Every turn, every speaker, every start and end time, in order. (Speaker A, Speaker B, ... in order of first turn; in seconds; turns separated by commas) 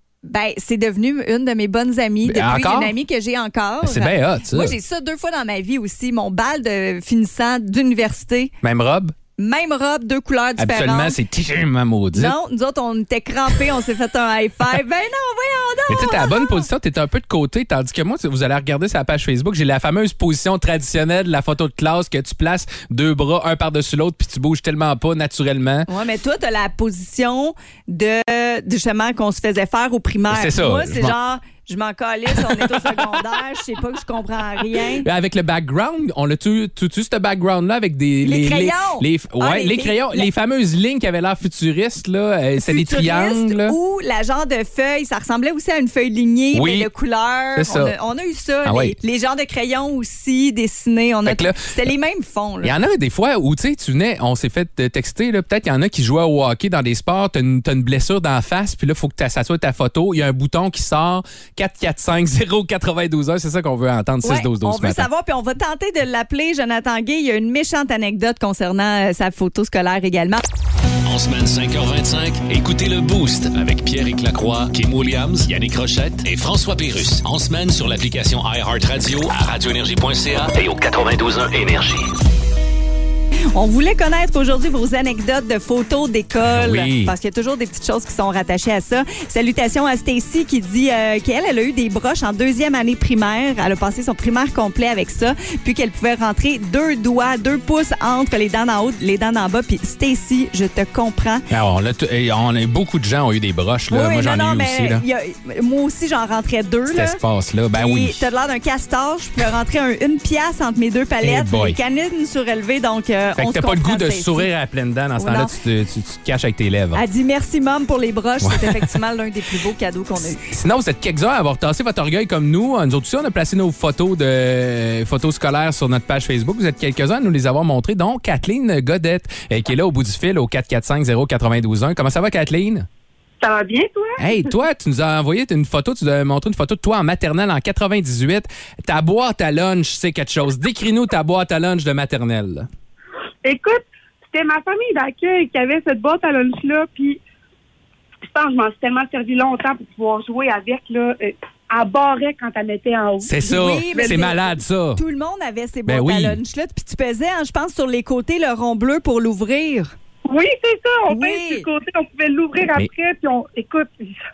Speaker A: 0.2-8.5, Speaker B: 2.2-2.9, Speaker B: 3.8-4.8, Speaker B: 8.6-9.2, Speaker A: 9.4-11.2, Speaker B: 10.6-12.4, Speaker A: 12.2-16.7, Speaker B: 15.9-25.9, Speaker A: 25.9-35.1, Speaker B: 30.3-31.2, Speaker B: 32.3-33.2, Speaker B: 34.7-43.8, Speaker A: 38.2-40.3, Speaker A: 42.6-52.8, Speaker B: 46.5-46.9, Speaker B: 47.5-47.9, Speaker B: 48.6-49.0, Speaker B: 51.2-51.9, Speaker B: 52.6-65.1, Speaker A: 64.2-70.4, Speaker C: 71.0-82.1, Speaker A: 83.5-101.5, Speaker B: 86.4-87.1, Speaker B: 101.5-105.0, Speaker A: 103.9-107.2, Speaker B: 106.9-108.3, Speaker A: 107.7-114.5, Speaker B: 111.2-111.8, Speaker B: 113.4-117.0, Speaker A: 115.2-115.6, Speaker A: 116.9-120.4, Speaker B: 118.4-119.0, Speaker B: 120.4-132.9, Speaker D: 133.4-134.3, Speaker B: 134.2-142.7, Speaker D: 143.4-147.2, Speaker D: 148.3-153.3, Speaker B: 153.2-155.0, Speaker A: 153.4-159.9, Speaker D: 153.9-154.4, Speaker B: 155.9-156.4, Speaker D: 160.3-164.2, Speaker A: 161.1-161.7